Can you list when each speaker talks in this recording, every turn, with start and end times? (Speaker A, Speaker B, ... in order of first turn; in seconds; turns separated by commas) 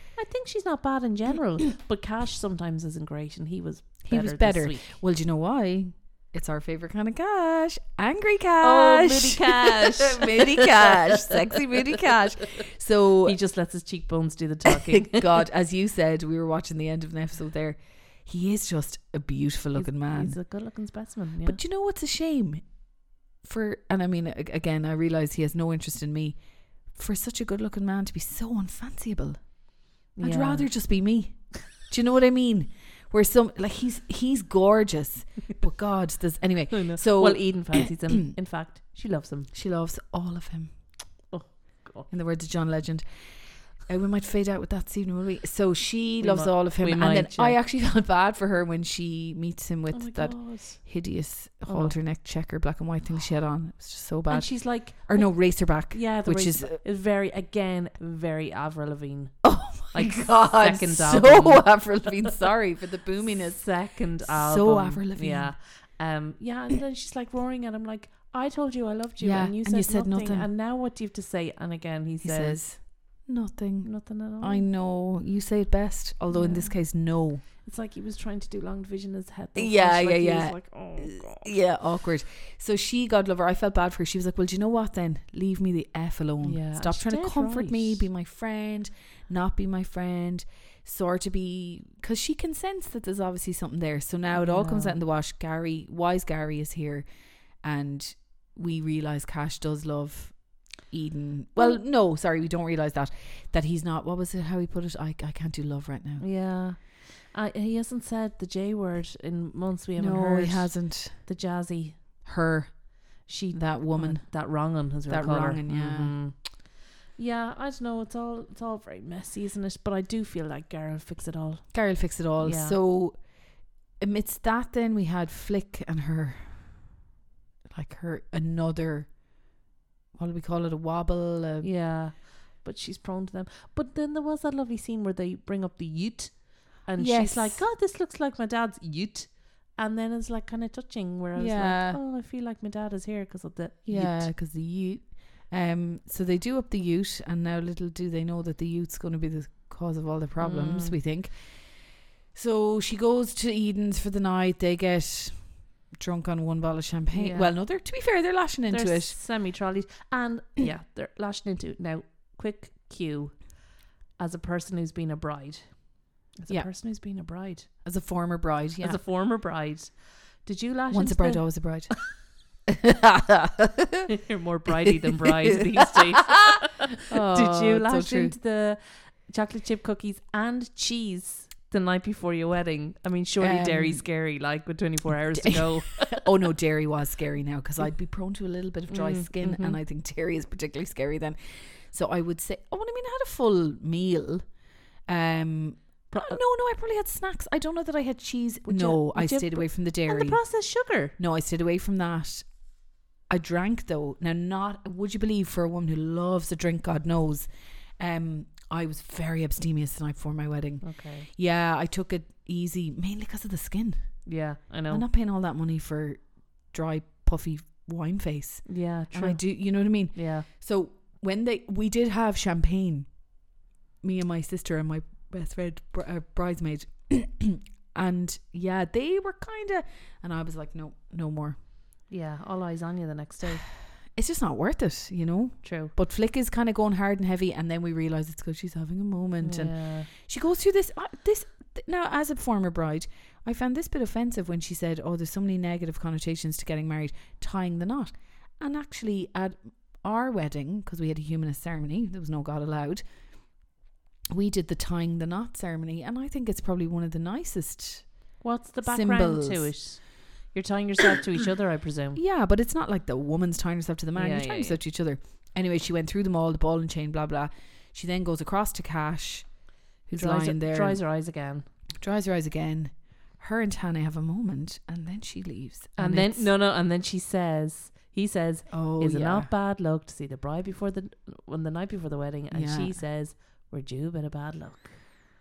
Speaker A: 0.2-5.0, Speaker B: 4.0-13.4, Speaker A: 8.6-11.6, Speaker A: 13.2-15.3, Speaker B: 14.8-20.4, Speaker A: 19.8-21.6, Speaker B: 21.4-22.7, Speaker B: 23.4-26.4, Speaker B: 26.9-29.5, Speaker A: 30.1-30.7, Speaker B: 30.2-37.9, Speaker A: 36.7-39.5, Speaker B: 39.5-40.8, Speaker A: 41.3-42.1, Speaker B: 42.1-43.0, Speaker B: 43.8-56.8, Speaker A: 46.2-47.6, Speaker A: 49.9-50.9, Speaker A: 51.7-52.0, Speaker A: 54.3-62.4, Speaker B: 59.4-65.5, Speaker A: 63.3-72.6, Speaker B: 69.2-70.5, Speaker B: 72.2-77.4, Speaker A: 73.8-74.7, Speaker A: 76.3-76.9, Speaker A: 77.4-81.5, Speaker B: 79.6-97.1, Speaker A: 86.4-88.0, Speaker A: 94.3-95.0, Speaker B: 97.6-106.3, Speaker A: 101.6-101.8, Speaker A: 106.2-112.0, Speaker B: 110.0-111.2, Speaker B: 112.2-113.0, Speaker A: 113.2-122.8, Speaker B: 113.5-116.2, Speaker B: 121.7-123.3, Speaker B: 124.0-126.9, Speaker B: 127.7-129.2, Speaker B: 130.2-131.7, Speaker A: 131.6-144.3, Speaker B: 137.0-137.7, Speaker B: 141.4-142.0, Speaker B: 143.9-159.2, Speaker A: 150.4-151.0, Speaker A: 157.1-157.6, Speaker A: 158.7-163.6, Speaker A: 164.2-167.7, Speaker B: 167.8-169.0, Speaker A: 168.8-172.0, Speaker B: 170.9-171.9, Speaker B: 172.7-174.1, Speaker A: 174.1-186.3, Speaker B: 177.1-178.4, Speaker B: 183.4-184.1, Speaker B: 185.3-194.5, Speaker A: 188.9-189.8, Speaker B: 195.1-200.4, Speaker A: 196.1-196.4, Speaker A: 198.7-201.2, Speaker B: 201.2-202.5, Speaker B: 203.3-214.2, Speaker A: 210.8-211.3, Speaker A: 214.2-215.1, Speaker B: 214.9-223.1, Speaker A: 218.7-219.5, Speaker A: 220.1-220.5, Speaker B: 224.0-231.6, Speaker A: 232.1-233.6, Speaker B: 234.1-253.0, Speaker A: 235.6-235.9, Speaker A: 239.4-240.1, Speaker B: 254.3-258.1, Speaker A: 258.4-262.2, Speaker B: 258.8-259.7, Speaker B: 262.2-269.5, Speaker A: 264.1-264.8, Speaker B: 270.1-271.0, Speaker A: 270.1-271.7, Speaker B: 272.0-276.5, Speaker A: 276.0-285.0, Speaker B: 278.7-279.5, Speaker B: 282.5-283.0